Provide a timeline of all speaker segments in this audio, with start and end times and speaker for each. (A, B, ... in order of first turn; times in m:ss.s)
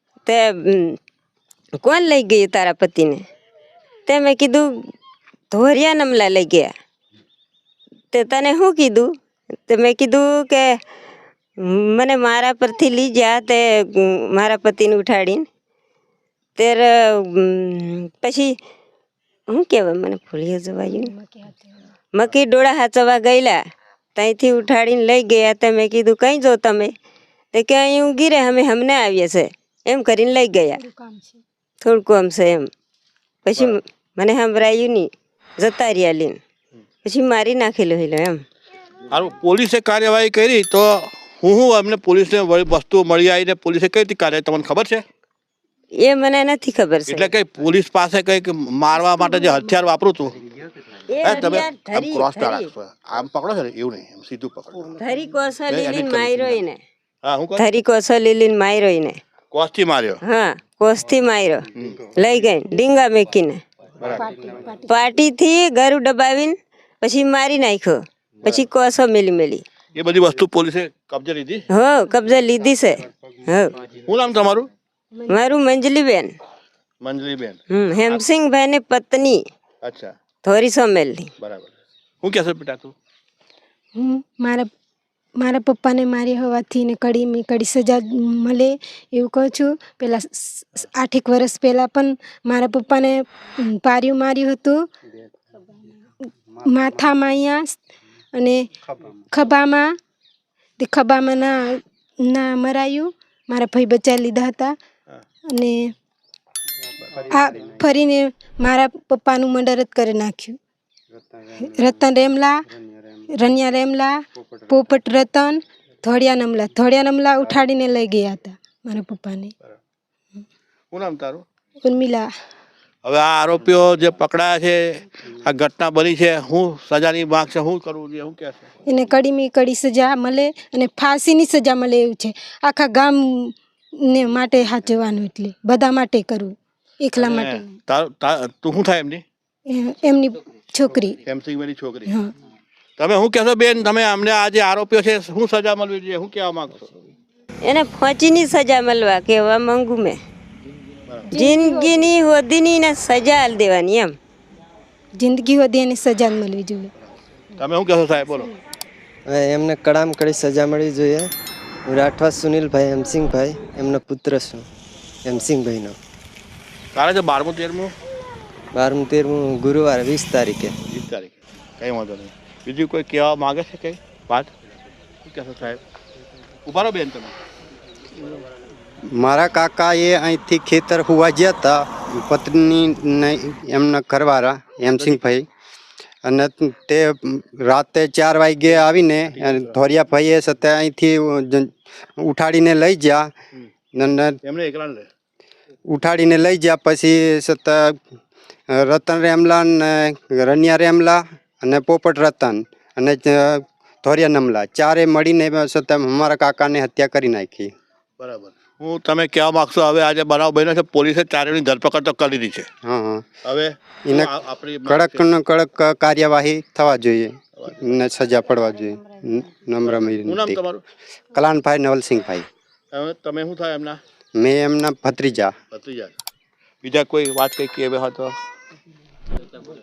0:00.3-0:01.0 A
0:01.8-0:03.2 A
0:04.1-0:04.7 A
0:05.5-0:06.7 A
0:08.1-0:09.1 A
0:09.7-0:10.7 A
0:12.0-0:15.4 A
0:16.6-0:18.5 A
0:19.5-0:21.1 A
0:20.9-0:21.9 B
0:22.1-0:23.6 A
0:24.2-0:26.9 A
0:27.5-0:30.8 A
0:30.8-0:31.4 B
0:31.8-0:32.7 A
0:33.4-0:35.1 A
0:35.6-0:36.4 A
0:37.0-0:38.4 A
0:39.1-0:45.0 C
0:46.0-0:47.3 A
0:47.1-0:50.4 C
0:51.1-0:52.7 A
0:51.2-0:54.9 C
0:55.0-0:56.8 A
0:55.7-0:56.6 C
0:57.2-0:57.6 C
0:57.6-0:59.2 A
0:59.5-1:00.2 C
1:00.2-1:01.6 A
1:01.8-1:02.0 C
1:02.2-1:03.6 A
1:04.1-1:05.0 B
1:04.9-1:09.6 A
1:10.0-1:11.7 C
1:11.7-1:13.8 A
1:14.0-1:14.7 C
1:15.3-1:16.3 A
1:17.0-1:17.6 C
1:17.7-1:19.4 A
1:19.8-1:20.1 C
1:20.4-1:21.3 A
1:21.4-1:23.0 C
1:24.0-1:24.7 B
1:25.4-1:34.9 B
1:36.6-1:37.8 B
1:38.3-1:38.7 B
1:39.3-1:40.0 B
1:40.8-1:44.8 B
1:45.5-1:45.9 B
1:47.0-1:47.4 D
1:47.3-1:50.6 B
1:51.1-1:51.8 D
1:51.6-1:52.6 B
1:52.8-1:53.3 D
1:53.3-1:59.5 B
1:54.4-1:54.7 D
2:00.9-2:01.4 C
2:01.8-2:02.3 B
2:03.0-2:08.7 C
2:08.9-2:17.7 B
2:17.2-2:19.2 C
2:19.7-2:21.2 B
2:21.2-2:22.1 C
2:23.0-2:26.9 C
2:27.6-2:30.2 A
2:31.1-2:31.3 C
2:31.3-2:32.1 B
2:31.3-2:34.1 A
2:35.2-2:36.9 B
2:37.6-2:38.5 C
2:39.3-2:41.3 E
2:41.9-2:44.7 E
2:45.2-2:46.0 E
2:46.9-2:47.9 C
2:48.7-2:50.8 E
2:50.9-2:54.5 C
2:55.2-2:55.8 C
2:56.7-2:57.3 C
2:59.1-3:05.5 D
3:05.0-3:05.2 C
3:06.2-3:13.3 D
3:09.3-3:09.8 C
3:13.9-3:14.4 D
3:14.4-3:15.1 C
3:15.9-3:18.0 D
3:18.7-3:27.7 D
3:28.2-3:32.7 C
3:32.8-3:33.3 D
3:33.4-3:35.3 C
3:34.1-3:34.3 D
3:34.8-3:40.6 D
3:37.6-3:37.8 C
3:39.9-3:40.8 C
3:41.3-3:42.5 D
3:42.9-3:44.0 C
3:44.4-3:45.5 D
3:45.7-3:46.1 C
3:46.8-3:48.4 C